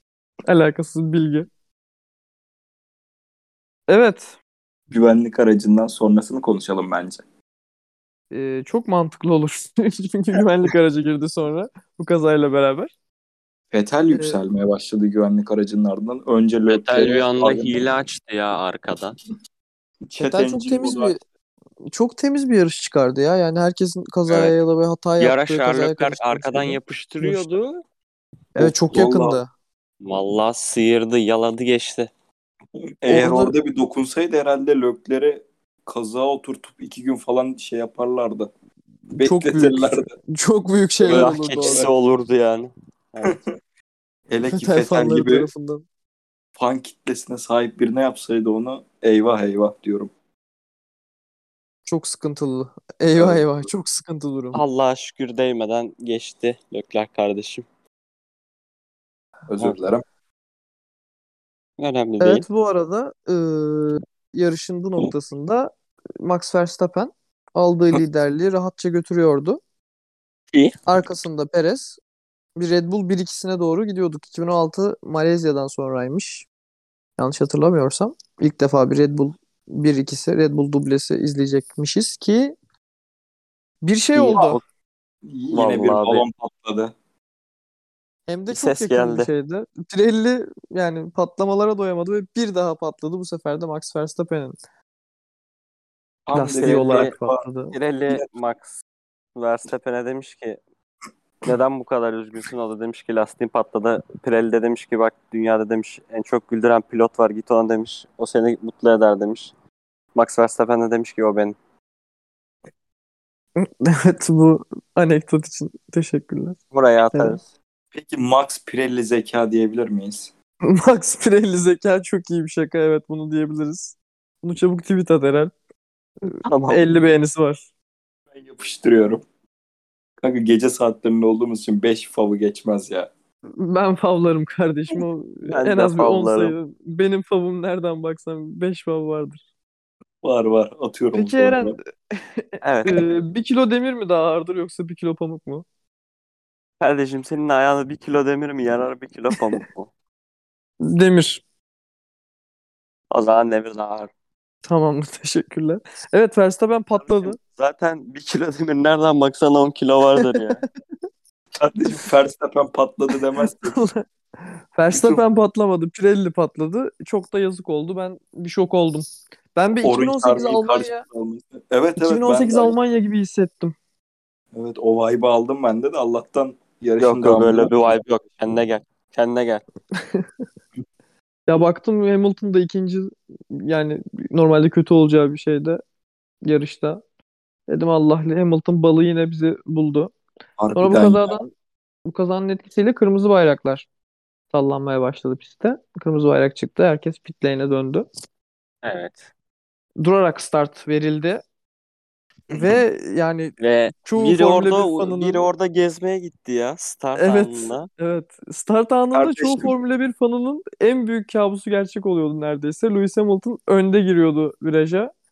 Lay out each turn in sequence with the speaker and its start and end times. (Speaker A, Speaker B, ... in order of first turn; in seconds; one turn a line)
Speaker A: 0.5-1.5
Speaker A: 3.9-4.3
Speaker B: 4.9-7.2
Speaker A: 8.3-12.9
Speaker B: 13.7-17.9
Speaker A: 14.1-14.4
Speaker C: 16.7-19.2
Speaker B: 20.1-21.2
Speaker A: 20.2-21.2
Speaker A: 21.9-27.5
Speaker C: 24.3-24.6
Speaker C: 25.2-27.8
Speaker A: 28.6-29.5
Speaker B: 28.6-29.4
Speaker C: 30.0-32.1
Speaker B: 33.0-38.5
Speaker A: 33.1-33.5
Speaker B: 39.1-40.1
Speaker A: 39.2-41.9
Speaker B: 41.0-41.9
Speaker C: 41.0-43.4
Speaker B: 43.2-43.5
Speaker B: 44.3-45.5
Speaker A: 44.5-45.9
Speaker B: 46.6-50.1
Speaker A: 51.9-54.6
Speaker B: 53.2-53.7
Speaker C: 54.5-57.6
Speaker B: 59.5-60.0
Speaker C: 61.8-62.5
Speaker A: 62.2-69.6
Speaker A: 70.9-72.0
Speaker A: 72.6-76.5
Speaker A: 77.2-82.5
Speaker A: 83.8-84.6
Speaker C: 84.2-84.6
Speaker B: 85.3-86.9
Speaker C: 85.5-86.2
Speaker A: 88.3-94.5
Speaker C: 88.5-89.3
Speaker B: 96.3-97.5
Speaker A: 96.3-97.7
Speaker C: 96.6-97.2
Speaker C: 97.7-98.8
Speaker C: 99.3-100.6
Speaker C: 101.4-109.5
Speaker C: 110.2-111.6
Speaker A: 113.6-116.6
Speaker C: 116.7-117.5
Speaker A: 117.1-117.4
Speaker B: 117.9-120.3
Speaker A: 120.7-125.5
Speaker A: 126.3-127.7
Speaker C: 126.5-126.9
Speaker B: 128.3-129.2
Speaker B: 130.2-133.1
Speaker A: 133.6-139.4
Speaker C: 135.5-136.6
Speaker B: 140.2-141.8
Speaker A: 141.1-145.7
Speaker C: 142.6-143.0
Speaker C: 146.8-149.9
Speaker A: 149.3-149.6
Speaker A: 150.8-151.4
Speaker C: 153.1-154.1
Speaker A: 154.7-157.4
Speaker C: 157.0-160.6
Speaker B: 161.6-163.8
Speaker A: 163.4-169.1
Speaker B: 164.9-165.2
Speaker A: 169.6-171.1
Speaker B: 169.8-172.8
Speaker A: 172.0-173.7
Speaker B: 174.5-178.0
Speaker C: 177.0-179.6
Speaker A: 180.0-180.2
Speaker A: 181.5-185.8
Speaker A: 186.4-187.0
Speaker A: 187.7-190.1
Speaker B: 190.6-191.4
Speaker A: 190.8-191.5
Speaker A: 192.1-193.9
Speaker A: 194.5-198.1
Speaker C: 198.8-199.3
Speaker A: 200.0-201.4
Speaker A: 202.5-205.5
Speaker C: 203.6-207.9
Speaker A: 207.2-215.1
Speaker B: 209.1-209.7